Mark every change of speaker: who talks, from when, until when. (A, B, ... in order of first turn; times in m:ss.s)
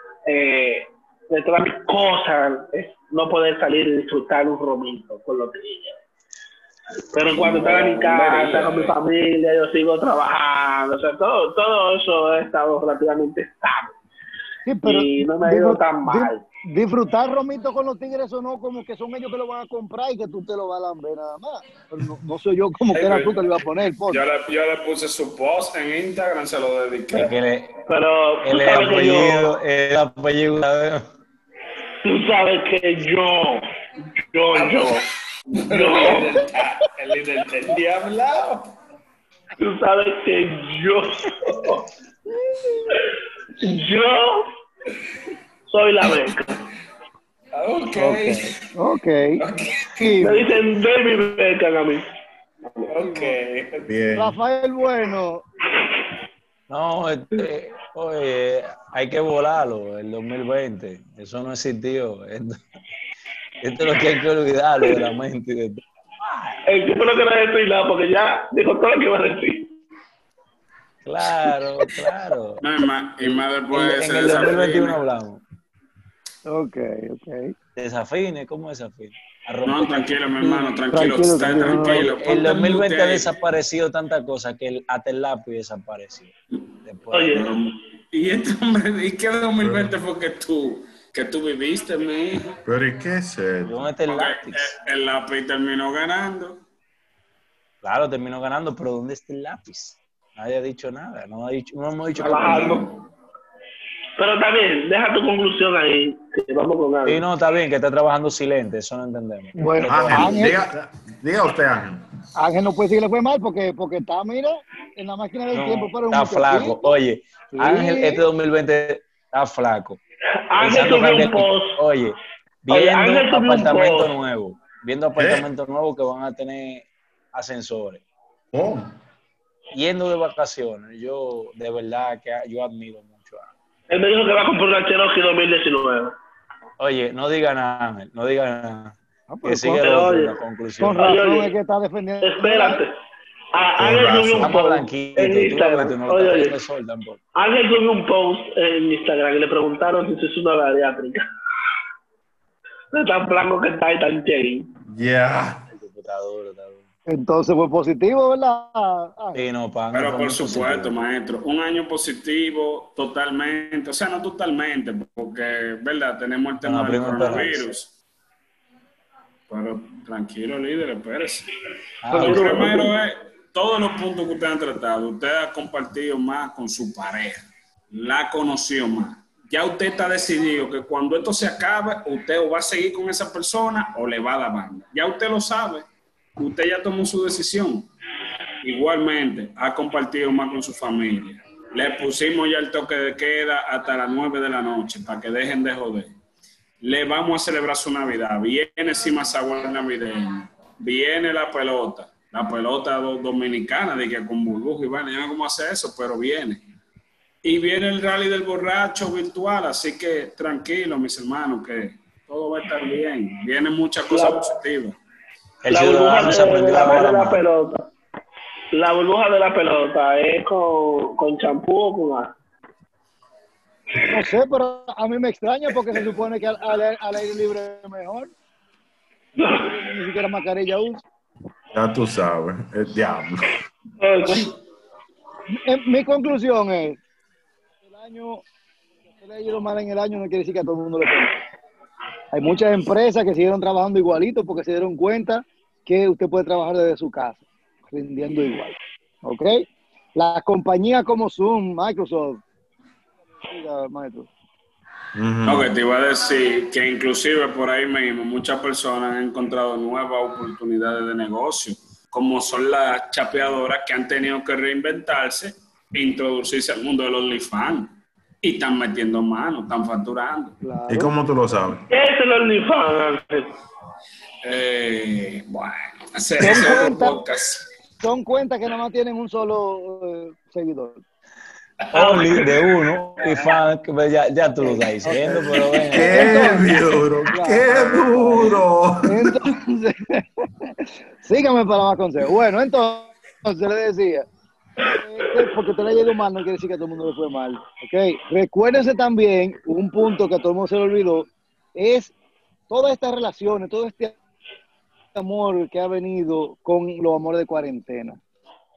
0:00.3-0:06.0 A
0:07.1-0:13.9 A
0:07.2-0:09.0 B
0:14.6-0:24.2 C
0:14.8-0:16.4 A
0:22.9-0:23.4 B
0:24.1-0:27.3 B
0:27.1-0:27.8 D
0:27.9-0:29.5 A
0:28.4-0:31.1 D
0:32.0-0:33.7 A
0:34.3-0:35.1 A
0:34.5-0:38.7 B
0:35.7-0:36.5 A
0:39.6-0:41.9 A
0:42.4-0:42.9 C
0:43.6-0:44.5 A
0:45.7-0:46.6 A
0:47.5-0:48.6 B
0:48.0-0:49.4 C
0:49.4-0:50.2 B
0:50.0-0:50.5 C
0:50.2-0:52.1 A
0:52.9-0:53.9 B
0:53.0-0:53.4 C
0:53.9-0:54.4 E
0:54.2-0:55.4 C
0:56.7-1:02.6 D
1:03.6-1:06.5 D
1:06.7-1:09.7 A
1:11.0-1:12.6 D
1:12.6-1:15.0 B
1:13.2-1:15.4 D
1:16.5-1:17.5 C
1:17.8-1:20.7 D
1:19.6-1:23.3 B
1:20.9-1:22.1 C
1:21.9-1:26.3 D
1:26.8-1:27.5 D
1:27.1-1:27.5 A
1:27.3-1:32.6 B
1:29.6-1:30.0 E
1:32.6-1:33.9 E
1:33.7-1:34.8 D
1:34.1-1:36.6 B
1:37.8-1:42.8 D
1:42.2-1:42.9 A
1:42.2-1:42.9 B
1:44.2-1:47.2 A
1:47.0-1:50.6 D
1:49.6-1:50.6 C
1:49.9-1:52.0 E
1:52.4-1:56.9 C
1:55.5-2:00.0 D
1:57.5-1:58.2 C
2:00.5-2:01.8 A
2:00.6-2:08.0 D
2:02.7-2:04.1 A
2:05.2-2:05.5 E
2:08.5-2:09.0 E
2:09.7-2:13.5 D
2:13.9-2:16.2 A
2:16.8-2:21.1 D
2:19.3-2:19.8 C
2:19.8-2:20.4 A
2:20.8-2:22.8 C
2:21.0-2:21.6 A
2:22.2-2:23.0 A
2:23.5-2:26.6 A
2:23.8-2:24.5 E
2:24.4-2:27.2 D
2:27.4-2:31.3 A
2:32.9-2:34.7 A
2:34.9-2:35.6 E
2:35.7-2:36.9 D
2:37.1-2:39.4 C
2:39.3-2:41.0 D
2:39.9-2:47.9 B
2:46.6-2:47.7 D
2:49.5-2:51.5 B
2:52.0-2:52.6 D
2:52.1-2:52.9 A
2:52.1-3:05.9 B
3:06.4-3:07.9 B
3:08.6-3:16.2 B
3:16.8-3:26.6 B
3:27.4-3:35.0 B
3:34.1-3:34.5 A
3:35.6-3:37.4 D
3:35.7-3:37.9 A
3:38.7-3:42.3 A
3:44.1-3:48.3 C
3:49.4-3:49.7 A
3:49.5-3:51.0 C
3:51.7-3:53.4 E
3:54.0-3:54.6 A
3:55.5-3:57.0 C
3:57.8-3:58.4 C
3:59.2-4:01.3 C
4:02.3-4:12.4 C
4:13.4-4:14.3 C
4:15.1-4:15.7 E
4:15.4-4:30.6 B
4:30.6-4:31.1 C
4:30.9-4:31.9 E
4:31.9-4:33.5 A
4:34.4-4:37.7 B
4:36.4-4:37.2 C
4:38.0-4:41.0 C
4:41.9-4:46.5 D
4:41.9-4:42.4 B
4:44.6-4:54.3 C
4:45.9-4:49.4 E
4:55.0-5:02.1 C
5:02.7-5:04.2 C
5:05.2-5:08.2 C